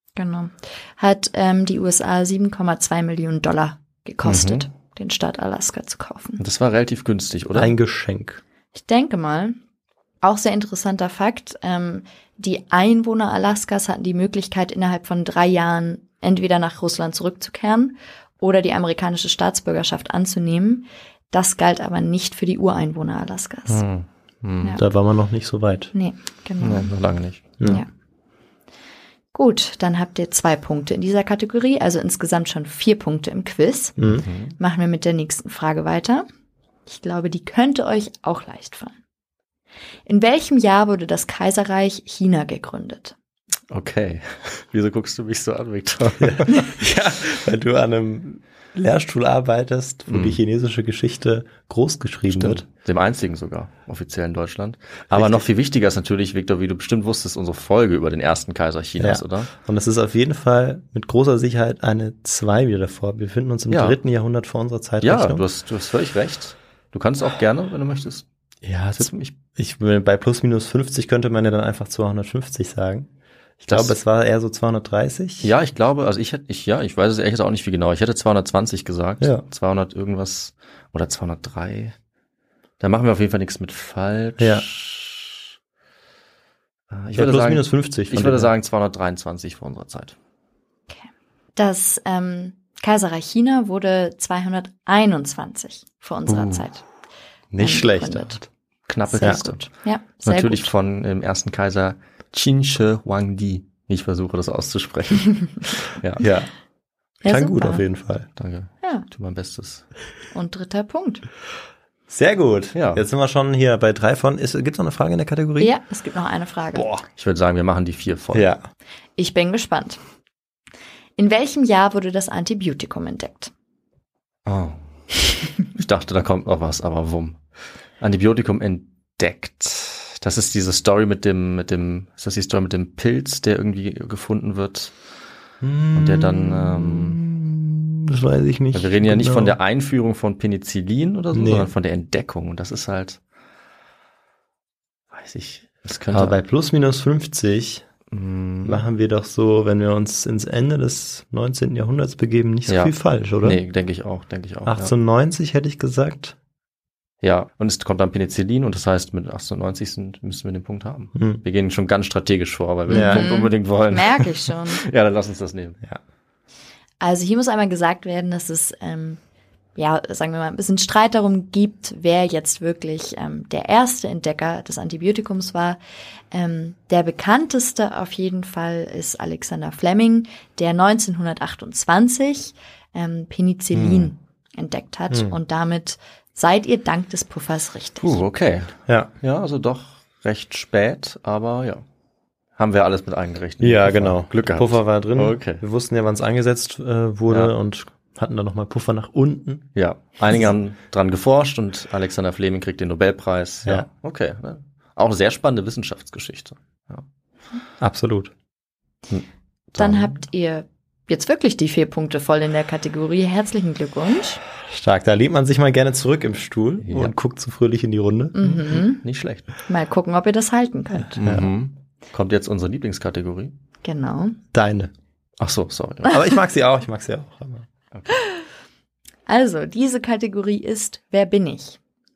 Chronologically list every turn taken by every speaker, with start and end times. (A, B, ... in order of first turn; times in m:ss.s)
0:00.2-0:06.4 A
0:04.2-0:04.7 B
0:06.4-0:07.8 B
0:07.6-0:08.4 C
0:08.7-0:09.6 A
0:10.2-0:23.8 A
0:23.7-0:24.8 B
0:24.8-0:25.9 C
0:25.9-0:27.9 A
0:26.6-0:27.5 B
0:29.3-0:34.0 A
0:34.0-0:34.2 C
0:34.1-0:34.6 B
0:34.6-0:36.3 A
0:36.9-0:39.0 A
0:40.1-0:43.2 A
0:43.7-0:46.7 B
0:46.2-0:52.6 C
0:50.1-0:50.4 B
0:52.3-0:59.5 B
0:55.1-0:55.5 C
0:59.0-1:05.4 C
1:03.7-1:04.0 B
1:05.0-1:08.3 B
1:08.6-1:13.1 C
1:09.0-1:09.3 B
1:13.6-1:15.5 C
1:13.7-1:14.0 B
1:15.4-1:22.0 B
1:22.8-1:25.4 B
1:24.4-1:24.7 C
1:26.9-1:30.2 B
1:27.1-1:28.5 C
1:30.9-1:36.8 A
1:36.3-1:36.6 B
1:37.5-1:38.5 C
1:37.6-1:38.4 A
1:38.9-1:39.7 B
1:39.1-1:40.7 A
1:40.2-1:46.2 B
1:46.2-1:46.5 C
1:47.2-1:47.8 A
1:47.2-1:48.3 C
1:48.4-1:49.9 B
1:48.8-1:49.1 A
1:50.3-1:51.2 A
1:52.1-1:55.7 C
1:52.8-1:53.0 B
1:55.6-1:56.9 A
1:56.8-1:57.0 C
1:57.1-1:58.5 B
1:58.3-1:58.7 C
1:59.2-2:00.0 A
2:01.2-2:03.5 A
2:04.5-2:04.8 B
2:05.7-2:07.4 B
2:08.0-2:14.9 B
2:15.6-2:19.6 C
2:15.9-2:17.2 B
2:18.7-2:23.2 B
2:21.3-2:21.7 C
2:25.1-2:26.4 B
2:26.1-2:27.9 C
2:28.1-2:28.8 B
2:28.6-2:33.6 C
2:32.7-2:34.9 B
2:34.7-2:36.4 C
2:37.2-2:45.8 B
2:41.2-2:41.4 C
2:42.9-2:43.4 C
2:42.9-2:44.8 A
2:47.0-2:49.2 A
2:49.8-2:55.8 A
2:56.3-3:08.2 A
3:03.8-3:04.1 B
3:05.1-3:05.4 C
3:08.0-3:11.8 B
3:12.6-3:15.6 B
3:13.6-3:19.7 C
3:19.8-3:27.0 B
3:27.8-3:28.3 C
3:29.1-3:30.2 B
3:29.8-3:34.4 A
3:34.6-3:38.8 C
3:36.8-3:37.1 B
3:38.4-3:39.0 A
3:38.7-3:39.5 B
3:39.7-3:41.2 A
3:41.2-3:41.5 C
3:41.2-3:43.5 B
3:43.8-3:44.4 A
3:44.5-3:44.9 C
3:45.4-3:46.2 B
3:46.1-3:47.7 C
3:47.9-3:48.2 B
3:49.3-3:51.8 A